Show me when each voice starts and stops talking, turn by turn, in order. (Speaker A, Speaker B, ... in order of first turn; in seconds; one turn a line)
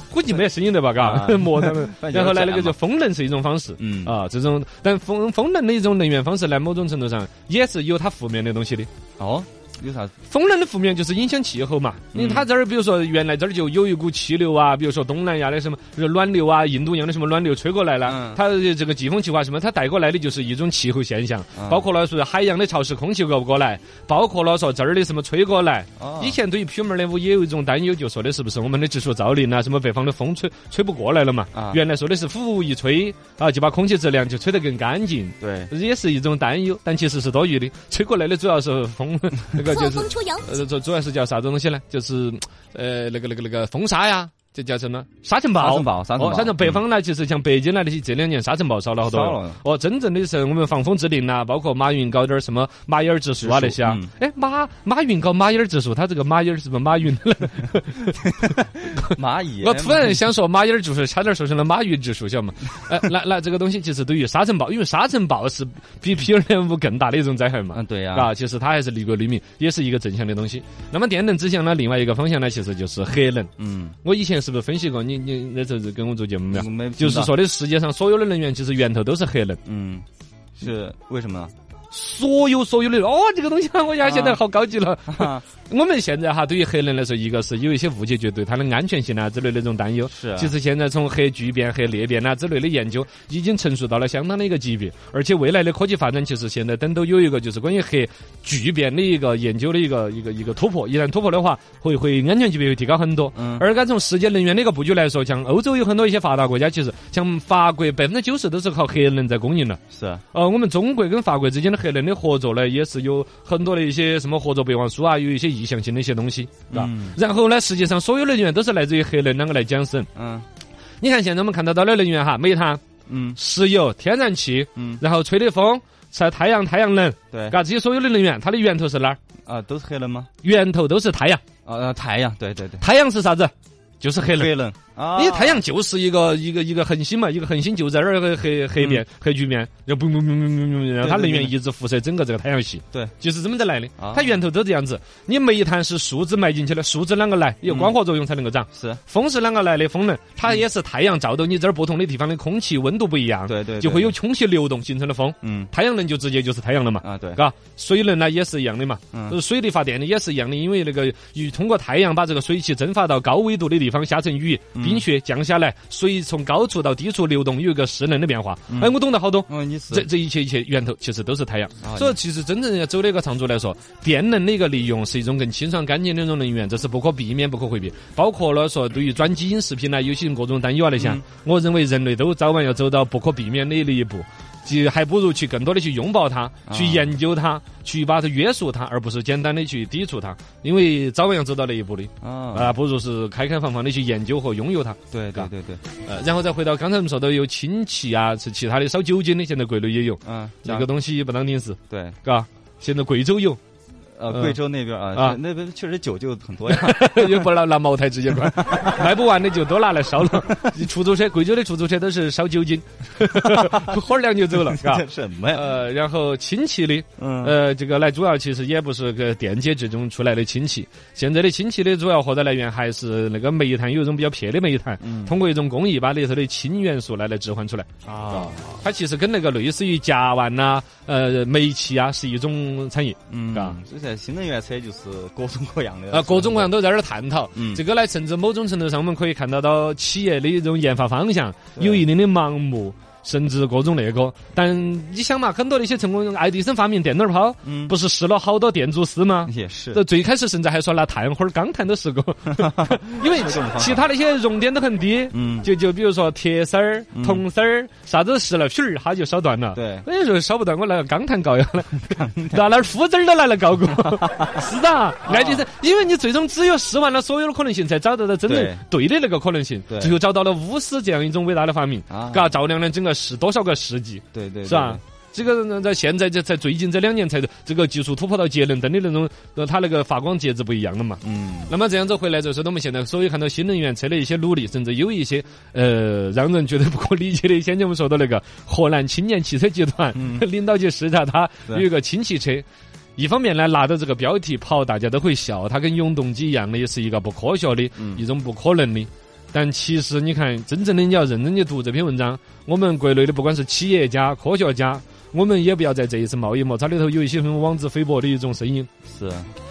Speaker A: 0.1-8.9
Speaker B: 1.0-2.8
Speaker B: 3.8-4.2
Speaker B: 9.2-10.1
Speaker A: 10.3-73.5
Speaker B: 12.1-12.5
Speaker B: 18.1-18.4
Speaker B: 21.6-21.9
Speaker B: 26.0-26.4
Speaker B: 31.5-31.8
Speaker B: 35.4-35.7
Speaker B: 45.6-46.8
Speaker B: 49.0-49.6
Speaker B: 53.4-54.1
Speaker B: 59.1-60.2
Speaker B: 67.7-68.3
Speaker B: 73.6-74.0
Speaker A: 74.0-79.6
Speaker B: 76.5-77.3
Speaker B: 79.7-80.1
Speaker B: 80.6-81.5
Speaker A: 81.9-109.8
Speaker B: 84.0-84.4
Speaker B: 85.1-85.4
Speaker B: 90.1-90.5
Speaker B: 103.4-103.7
Speaker B: 109.9-110.2
Speaker A: 110.3-120.1
Speaker B: 116.7-117.2
Speaker B: 120.2-120.5
Speaker A: 121.0-122.8
Speaker B: 123.1-123.4
Speaker A: 123.4-129.2
Speaker B: 127.3-127.6
Speaker B: 129.4-130.3
Speaker A: 130.4-131.4
Speaker B: 131.7-132.8
Speaker A: 132.8-134.5
Speaker B: 134.3-135.6
Speaker A: 135.2-195.5
Speaker B: 138.8-139.0
Speaker B: 141.0-141.6
Speaker B: 144.0-144.3
Speaker B: 147.7-147.9
Speaker B: 148.7-149.0
Speaker B: 153.5-154.2
Speaker B: 155.4-155.7
Speaker B: 157.0-157.4
Speaker B: 164.8-165.1
Speaker B: 169.5-170.1
Speaker B: 171.8-172.2
Speaker B: 181.0-181.2
Speaker B: 186.7-187.2
Speaker B: 192.2-192.8
Speaker B: 195.1-195.8
Speaker A: 196.0-203.6
Speaker B: 200.2-200.9
Speaker B: 201.9-202.2
Speaker B: 204.2-207.3
Speaker A: 204.3-204.6
Speaker A: 206.7-233.8
Speaker B: 208.6-209.0
Speaker B: 214.7-215.7
Speaker B: 217.2-217.6
Speaker B: 225.0-225.4
Speaker B: 228.1-228.8
Speaker B: 233.3-236.7
Speaker A: 236.1-308.9
Speaker B: 237.6-237.8
Speaker B: 241.8-242.1
Speaker B: 247.7-247.9
Speaker B: 249.4-250.0
Speaker B: 252.6-254.1
Speaker B: 255.3-255.7
Speaker B: 257.1-257.4
Speaker B: 259.8-260.1
Speaker B: 262.0-262.6
Speaker B: 265.3-265.6
Speaker B: 268.5-268.8
Speaker B: 269.9-270.1
Speaker B: 272.1-272.6
Speaker B: 274.3-275.0
Speaker B: 281.2-281.7
Speaker B: 290.2-290.4
Speaker B: 309.1-309.5